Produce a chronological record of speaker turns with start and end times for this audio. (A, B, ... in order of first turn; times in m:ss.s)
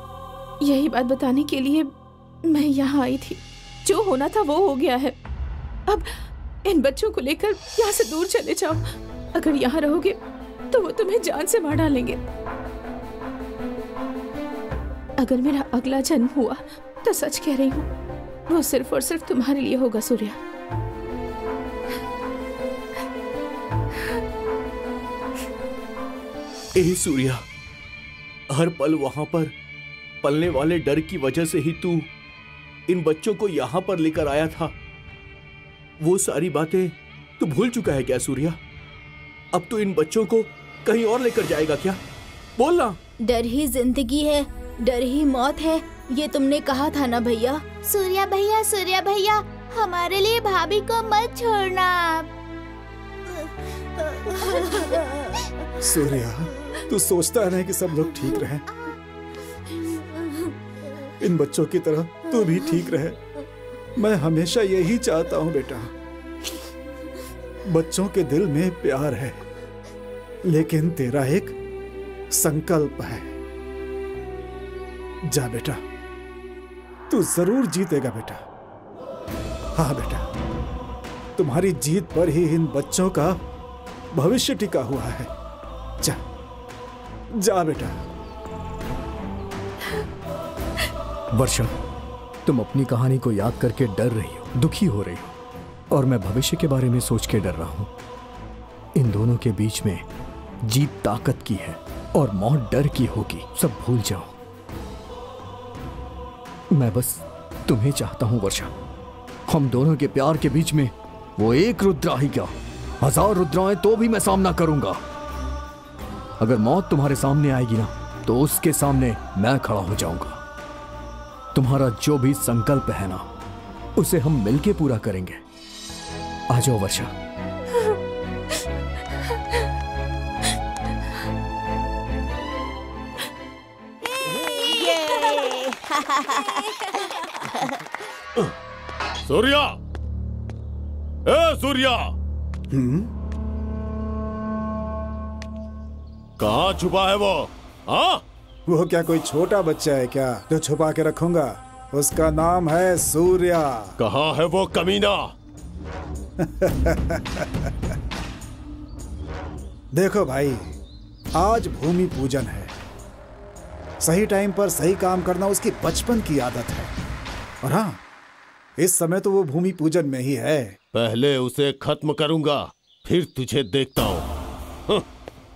0:00.6-0:01.9 A
0:02.4-0:05.1 A
0:05.9-0:10.2 A
0:10.7-0:12.2 A
0:15.2-0:17.9 A
0:18.5-0:20.4 A
0:26.8-0:27.4 B
0:28.5-0:29.5 B
0:30.2-0:32.1 B
0:32.9-0:34.7 B
0:36.0-0:38.6 B
0:39.5-0:42.0 B
0:42.6-0:43.0 B
0:43.2-0:47.8 C
0:47.9-0:49.1 D
0:50.2-0:52.2 D
0:55.8-0:58.6 E
1:01.2-1:03.2 E
1:04.0-1:05.9 E
1:07.7-1:09.4 E
1:10.5-1:11.5 E
1:12.3-1:13.4 E
1:15.3-1:15.8 E
1:17.1-1:18.4 E
1:19.8-1:20.2 E
1:21.4-1:23.4 E
1:24.1-1:25.3 E
1:27.4-1:28.0 E
1:31.3-1:31.8 F
1:32.4-1:35.3 F
1:35.9-1:37.9 F
1:39.0-1:40.0 F
1:40.6-1:44.3 F
1:46.7-1:48.7 F
1:49.5-1:55.0 F
1:56.4-2:00.4 F
2:01.5-2:03.3 F
2:04.0-2:05.4 F
2:06.5-2:07.1 F
2:14.4-2:17.7 D
2:19.2-2:19.8 G
2:21.3-2:22.1 G
2:22.7-2:23.1 E
2:26.4-2:28.2 G
2:28.7-2:34.0 E
2:34.0-2:35.3 G
2:36.4-2:37.7 E
2:39.9-2:40.8 E
2:41.4-2:42.7 E
2:44.0-2:47.0 E
2:47.6-2:48.0 E
2:48.8-2:50.8 E
2:50.9-2:54.3 G